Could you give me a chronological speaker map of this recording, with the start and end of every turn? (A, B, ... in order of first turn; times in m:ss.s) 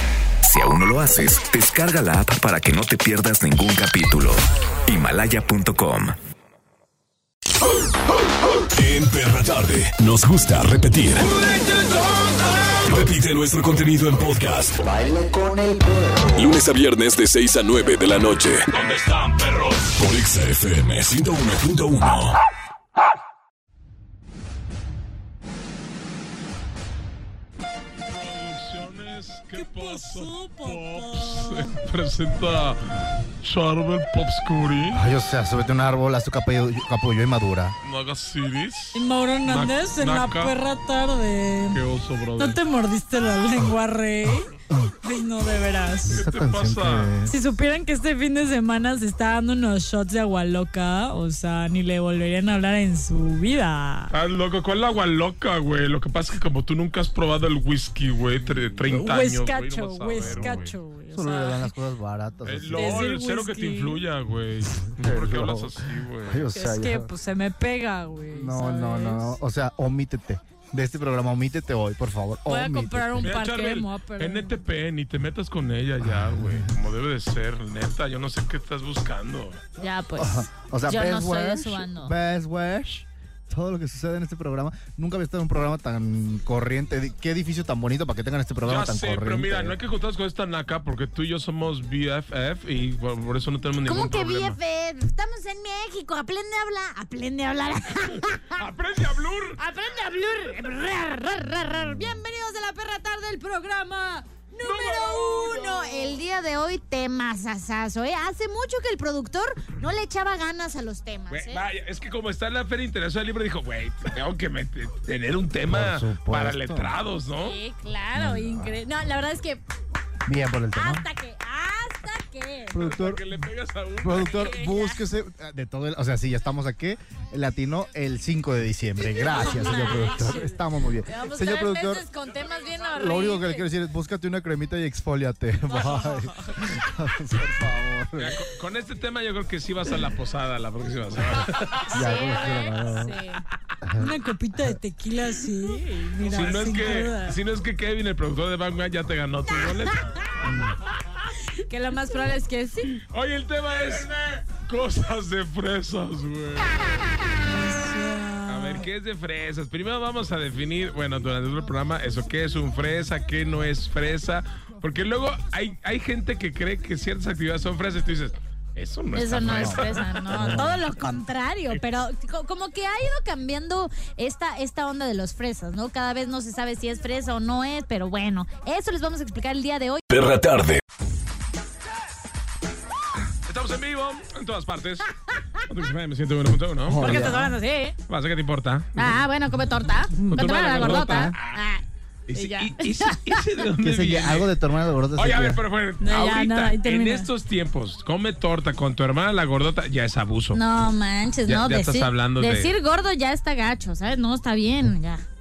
0:00.4-0:06.2 A
0:08.7-0:11.3 B
0:11.3-0:12.8 C
0:12.8-0:14.8 B
0:14.9-0:16.3 D
0:16.4-0:22.4 B
0:28.1-0:32.8 C
0:29.6-0:31.7 E
0:33.4-0:35.0 C
0:34.9-0:37.8 D
0:37.8-0:40.6 C
0:39.0-0:41.8 E
0:41.7-0:42.6 C
0:42.4-0:44.5 E
0:45.0-0:46.2 E
0:46.1-0:47.3 D
0:46.1-0:47.1 C
0:47.3-0:54.1 E
0:54.1-1:00.8 C
0:58.9-1:01.7 E
1:00.2-1:00.6 D
1:01.1-1:03.1 D
1:02.4-1:06.5 C
1:02.8-1:04.0 E
1:05.0-1:07.1 D
1:06.6-1:09.3 E
1:08.3-1:13.3 D
1:12.5-1:14.4 F
1:13.2-1:14.0 E
1:13.2-1:19.6 C
1:16.0-1:16.7 D
1:19.8-1:22.1 F
1:20.2-1:29.8 D
1:28.6-1:34.6 C
1:33.8-1:38.6 F
1:38.5-1:39.6 C
1:39.6-1:51.6 F
1:44.6-1:46.1 C
1:51.3-1:57.6 C
1:55.7-1:56.9 D
1:57.4-1:59.6 F
1:58.2-1:58.8 D
2:00.3-2:01.0 D
2:00.7-2:02.8 F
2:02.7-2:03.4 D
2:02.8-2:04.6 C
2:04.0-2:12.0 D
2:04.3-2:05.0 F
2:09.0-2:13.7 F
2:13.0-2:18.4 D
2:15.7-2:16.6 F
2:18.2-2:21.9 C
2:21.9-2:23.2 D
2:21.9-2:23.4 F
2:23.8-2:24.8 D
2:24.0-2:27.3 E
2:26.3-2:30.5 C
2:30.4-2:30.8 D
2:31.7-2:32.9 F
2:32.9-2:36.9 C
2:37.5-2:38.8 E
2:38.5-2:50.7 C
2:49.1-3:00.0 F
2:49.4-2:50.8 D
3:00.1-3:00.8 B
3:03.5-3:05.1 C
3:05.6-3:07.4 C
3:06.9-3:07.6 D
3:07.0-3:08.0 F
3:08.1-3:09.2 C
3:09.0-3:11.8 F
3:10.2-3:11.4 D
3:10.3-3:11.6 C
3:12.3-3:14.5 C
3:12.4-3:13.4 F
3:13.8-3:15.6 D
3:15.2-3:20.6 C
3:16.0-3:17.3 F
3:20.5-3:25.2 F
3:21.5-3:22.7 C